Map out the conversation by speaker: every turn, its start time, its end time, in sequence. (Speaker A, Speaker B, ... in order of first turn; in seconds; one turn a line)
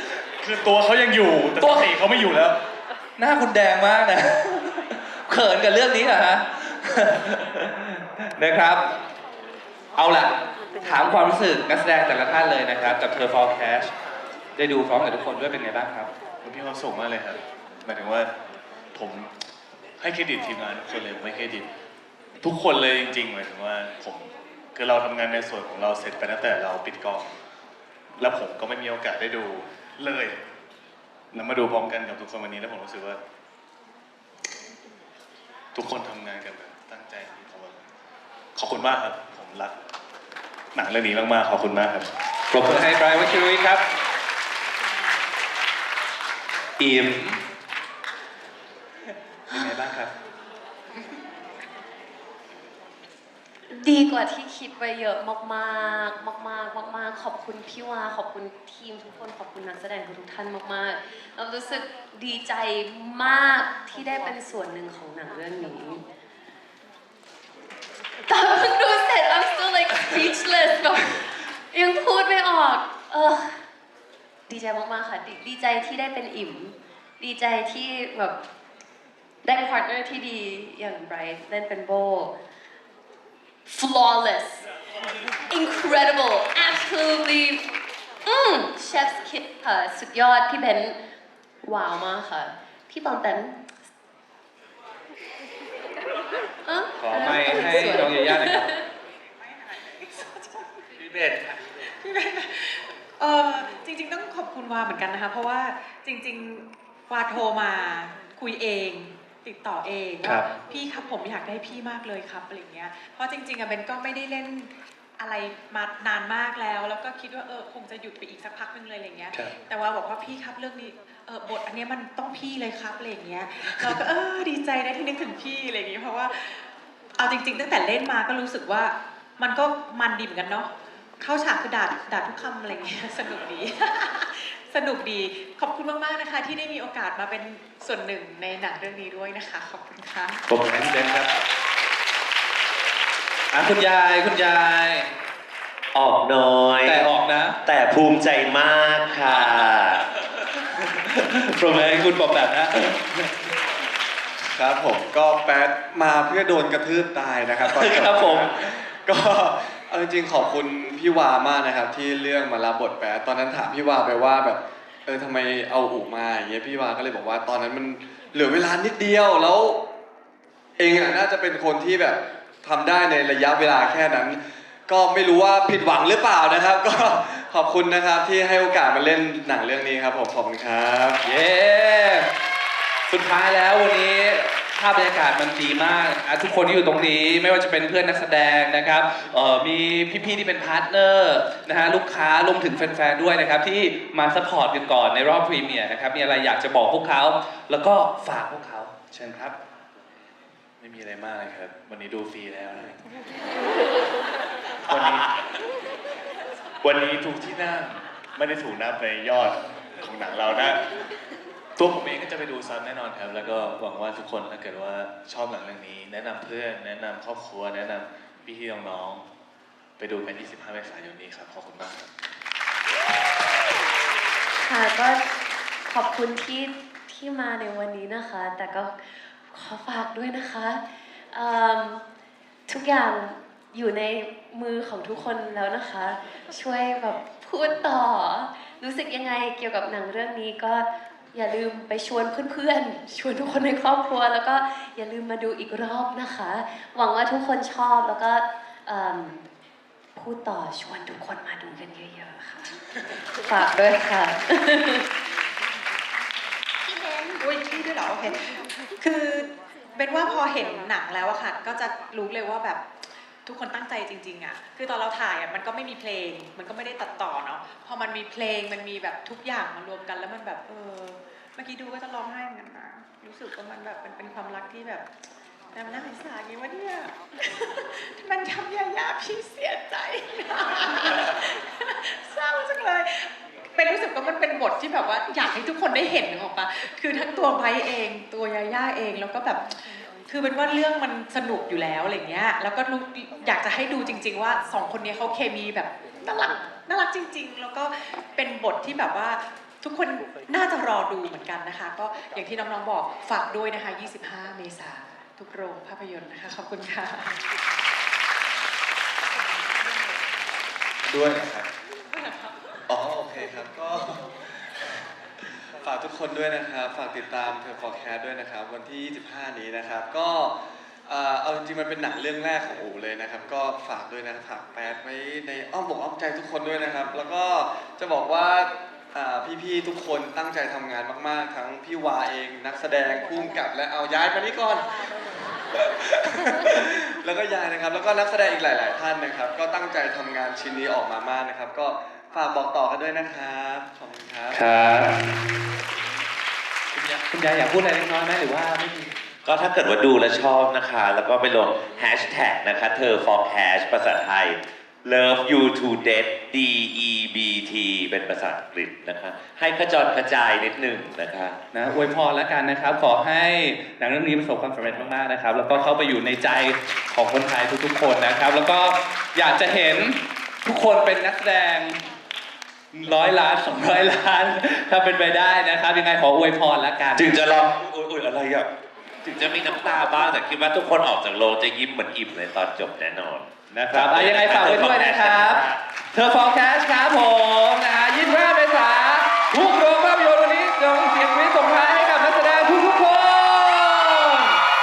Speaker A: 0.3-2.6
Speaker B: 1.6-1.9
Speaker B: 3.2-8.8
Speaker B: 10.0-13.9
Speaker B: 14.6-16.1
Speaker A: 16.4-18.3
Speaker A: 18.9-19.3
Speaker A: 20.0-21.7
Speaker A: 22.4-27.3
Speaker A: 28.2-30.4
Speaker A: 31.3-33.2
Speaker A: 35.8-37.8
Speaker A: 38.6-39.8
Speaker A: 40.7-42.1
Speaker B: 42.5-43.8
Speaker B: 46.8-47.4
Speaker B: 49.5-50.1
Speaker C: 53.7-66.0
Speaker C: 68.3-73.6
Speaker C: 74.5-78.4
Speaker C: 79.4-82.3
Speaker C: 83.7-84.7
Speaker C: 85.5-87.6
Speaker C: 88.3-91.0
Speaker C: 91.6-93.7
Speaker C: 96.7-98.8
Speaker B: 97.0-98.7
Speaker D: 99.4-101.1
Speaker E: 101.1-101.5
Speaker D: 101.8-126.7
Speaker D: 127.2-140.4
Speaker B: 140.5-141.3
Speaker B: 143.5-145.1
Speaker E: 145.9-147.1
Speaker B: 146.8-147.6
Speaker E: 147.6-150.0
Speaker B: 149.3-149.7
Speaker B: 150.9-153.3
Speaker F: 154.4-169.8
Speaker B: 157.6-158.5
Speaker F: 170.8-181.2
Speaker B: 181.2-182.3
Speaker B: 183.1-199.6
Speaker A: 200.8-203.0
Speaker A: 204.9-205.3
Speaker A: 206.8-210.8
Speaker A: 211.8-219.2
Speaker A: 220.0-222.1
Speaker C: 224.6-225.2
Speaker C: 225.9-228.9
Speaker C: 229.5-230.8
Speaker C: 231.3-232.0
Speaker C: 232.7-249.4
Speaker C: 250.2-255.1
Speaker D: 256.9-262.9
Speaker D: 263.4-275.1
Speaker D: 275.7-307.4
Speaker A: 311.0-311.6
Speaker F: 312.9-314.4
Speaker F: 315.8-335.0
Speaker F: 335.7-344.6
Speaker B: 344.5-345.2
Speaker B: 347.2-349.1
Speaker E: 349.4-361.6
Speaker B: 361.7-372.0
Speaker B: 372.9-377.3
Speaker E: 377.2-378.7
Speaker E: 379.2-385.8
Speaker B: 383.7-394.6